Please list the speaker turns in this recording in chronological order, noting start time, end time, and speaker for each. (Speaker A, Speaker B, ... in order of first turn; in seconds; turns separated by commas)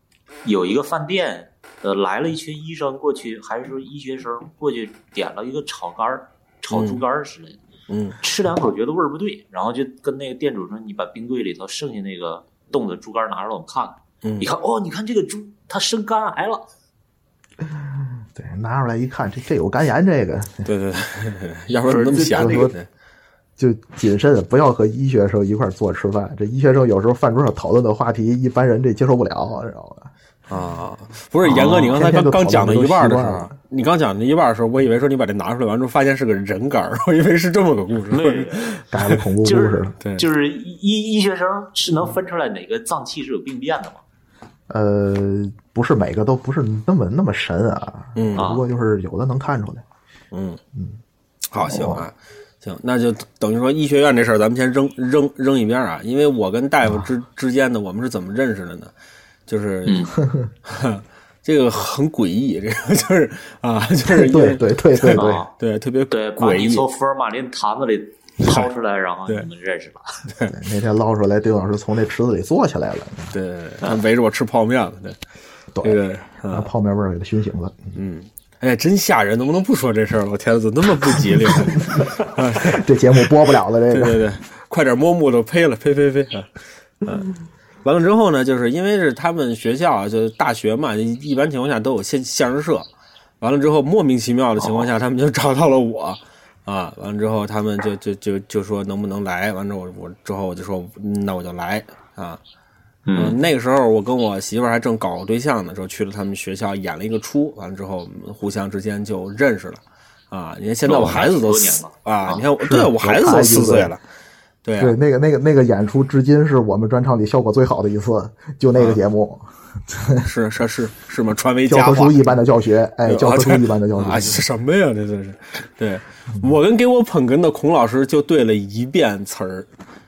Speaker A: 0.4-7.6, Speaker B: 6.7-7.0, Speaker B: 7.9-8.2, Speaker A: 8.2-16.6, Speaker B: 14.2-14.5, Speaker C: 17.6-20.7, Speaker B: 20.6-22.9, Speaker A: 21.9-22.7, Speaker C: 22.2-22.7, Speaker C: 23.6-30.1, Speaker B: 30.5-39.2, Speaker C: 31.4-33.5, Speaker A: 31.5-31.8, Speaker A: 38.1-38.7, Speaker C: 38.9-40.0, Speaker A: 39.4-44.0, Speaker C: 44.7-49.8, Speaker B: 48.1-48.5, Speaker A: 48.4-48.6, Speaker B: 50.3-50.6, Speaker C: 50.7-51.0, Speaker B: 51.5-58.9, Speaker C: 51.6-52.1, Speaker B: 59.5-60.0, Speaker A: 59.9-60.1, Speaker B: 60.6-66.8, Speaker C: 64.1-65.4, Speaker A: 65.1-65.5, Speaker A: 66.1-70.1, Speaker B: 70.3-70.5, Speaker C: 70.5-73.3, Speaker B: 73.3-75.2, Speaker C: 75.7-78.0, Speaker B: 75.8-76.7, Speaker B: 77.9-82.8, Speaker C: 81.5-84.2, Speaker B: 83.9-86.5, Speaker B: 87.8-92.9, Speaker B: 93.4-102.4, Speaker A: 103.0-103.4, Speaker B: 103.1-114.0, Speaker A: 110.8-112.4, Speaker C: 112.6-113.9, Speaker B: 114.6-115.0, Speaker C: 114.8-120.3, Speaker B: 120.2-122.3, Speaker C: 121.7-124.4, Speaker B: 123.0-129.7